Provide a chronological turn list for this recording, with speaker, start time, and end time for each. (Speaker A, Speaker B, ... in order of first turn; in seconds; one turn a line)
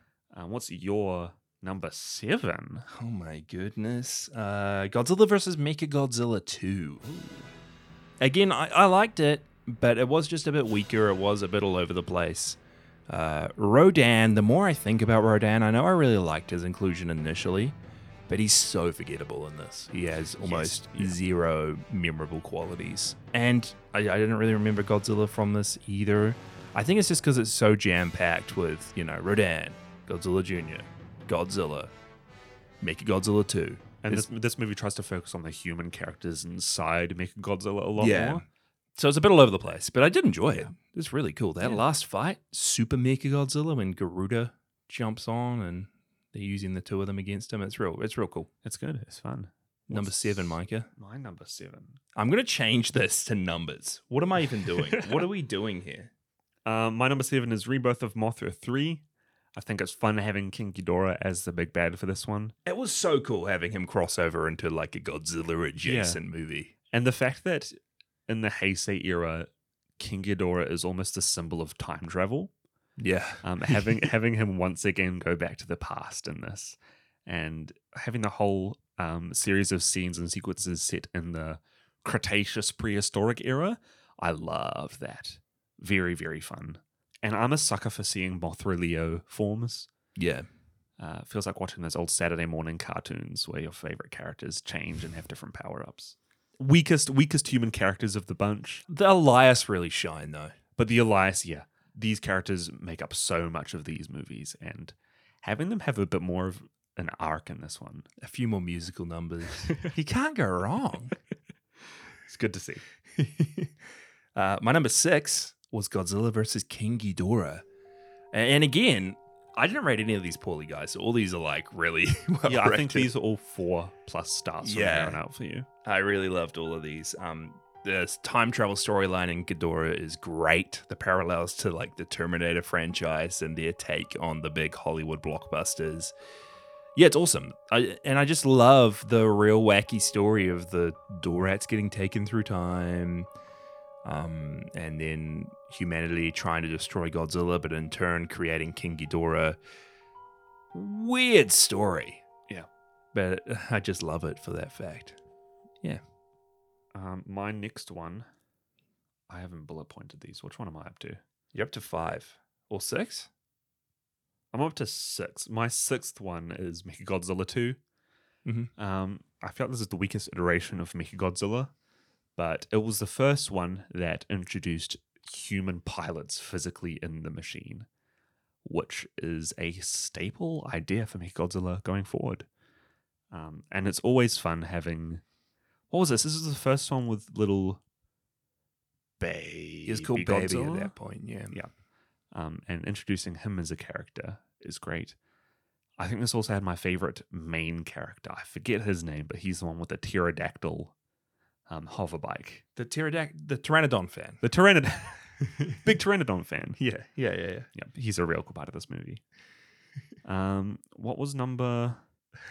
Speaker A: 0.3-2.9
Speaker B: 2.9-7.1
Speaker B: 8.2-17.8
Speaker B: 18.3-31.9
Speaker A: 20.4-21.2
Speaker B: 32.8-34.2
Speaker A: 34.0-38.4
Speaker B: 38.0-38.4
Speaker B: 39.0-48.5
Speaker A: 48.6-52.0
Speaker B: 49.9-50.9
Speaker B: 52.1-56.1
Speaker A: 54.7-55.2
Speaker A: 56.6-59.0
Speaker A: 59.5-62.5
Speaker B: 62.6-66.7
Speaker A: 65.8-66.2
Speaker A: 66.9-67.7
Speaker A: 68.3-72.5
Speaker B: 73.0-74.1
Speaker A: 73.4-89.9
Speaker B: 90.2-90.5
Speaker A: 91.0-98.8
Speaker B: 98.9-100.5
Speaker A: 100.8-108.1
Speaker B: 108.2-111.1
Speaker A: 112.2-112.8
Speaker B: 113.2-113.5
Speaker B: 114.3-117.6
Speaker B: 118.3-123.1
Speaker A: 122.5-125.7
Speaker B: 124.6-125.2
Speaker B: 125.8-136.1
Speaker B: 136.9-143.3
Speaker B: 144.0-149.6
Speaker B: 150.7-152.2
Speaker B: 153.1-155.2
Speaker A: 156.9-158.3
Speaker A: 159.3-161.2
Speaker B: 161.5-163.3
Speaker A: 164.5-167.8
Speaker B: 168.4-168.7
Speaker A: 168.8-171.7
Speaker A: 172.3-177.9
Speaker A: 178.6-182.5
Speaker A: 183.3-185.2
Speaker A: 185.9-187.8
Speaker A: 189.2-190.9
Speaker B: 189.9-191.5
Speaker A: 192.3-195.2
Speaker A: 196.0-200.9
Speaker A: 201.7-202.6
Speaker B: 202.8-204.4
Speaker A: 204.4-206.8
Speaker B: 206.8-207.7
Speaker A: 207.7-209.2
Speaker A: 210.2-212.0